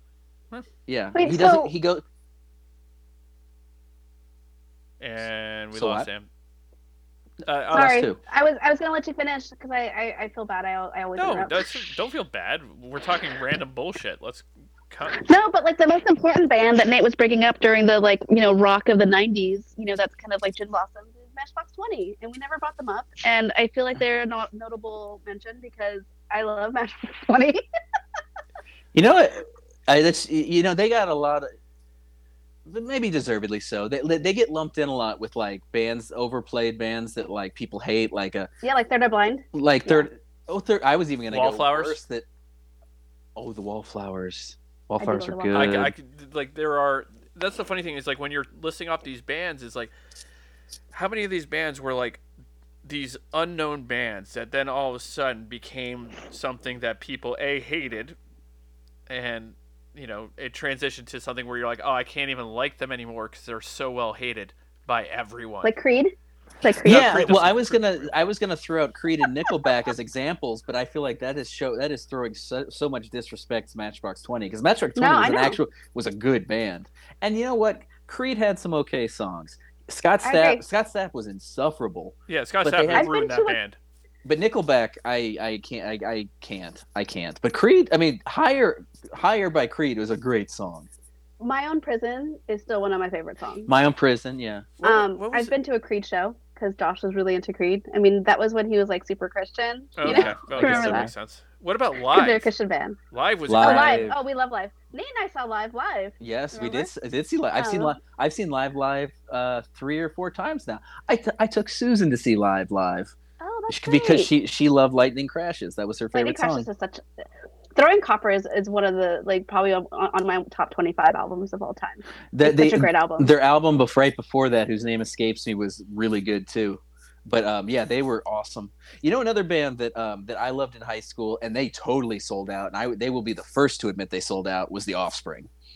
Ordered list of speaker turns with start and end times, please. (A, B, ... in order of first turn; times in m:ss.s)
0:00.9-0:02.0 A
0:01.2-0:01.7 B
0:05.0-0:06.3 C
0:05.7-0:06.1 A
0:07.4-0:08.0 C
0:07.7-0:08.2 A
0:07.7-0:11.9 B
0:11.2-0:15.2 C
0:15.1-0:27.6 B
0:28.9-0:31.5 A
0:32.7-0:38.5 A
0:38.6-0:40.1 B
0:39.5-0:42.3 A
0:41.3-0:42.0 C
0:43.4-0:45.9 A
0:45.0-0:45.8 B
0:45.5-0:49.9 C
0:50.9-0:52.2 C
0:52.8-0:58.2 C
0:59.1-1:05.7 C
1:05.6-1:07.3 B
1:06.7-1:08.2 C
1:06.8-1:23.1 A
1:15.0-1:15.6 B
1:20.2-1:20.6 B
1:22.3-1:23.8 C
1:22.9-1:23.6 B
1:24.2-1:30.9 A
1:31.4-1:33.7 B
1:33.7-1:34.8 A
1:34.8-1:35.5 C
1:34.8-1:41.1 B
1:40.0-1:42.5 C
1:40.0-1:41.1 A
1:42.1-1:43.0 B
1:43.1-1:44.1 C
1:43.5-1:44.2 A
1:43.6-1:46.9 B
1:46.2-1:53.1 A
1:47.6-1:48.0 B
1:53.4-1:54.3 B
1:53.7-1:56.7 A
1:56.1-1:57.0 B
1:57.8-2:03.3 B
2:02.3-2:15.5 A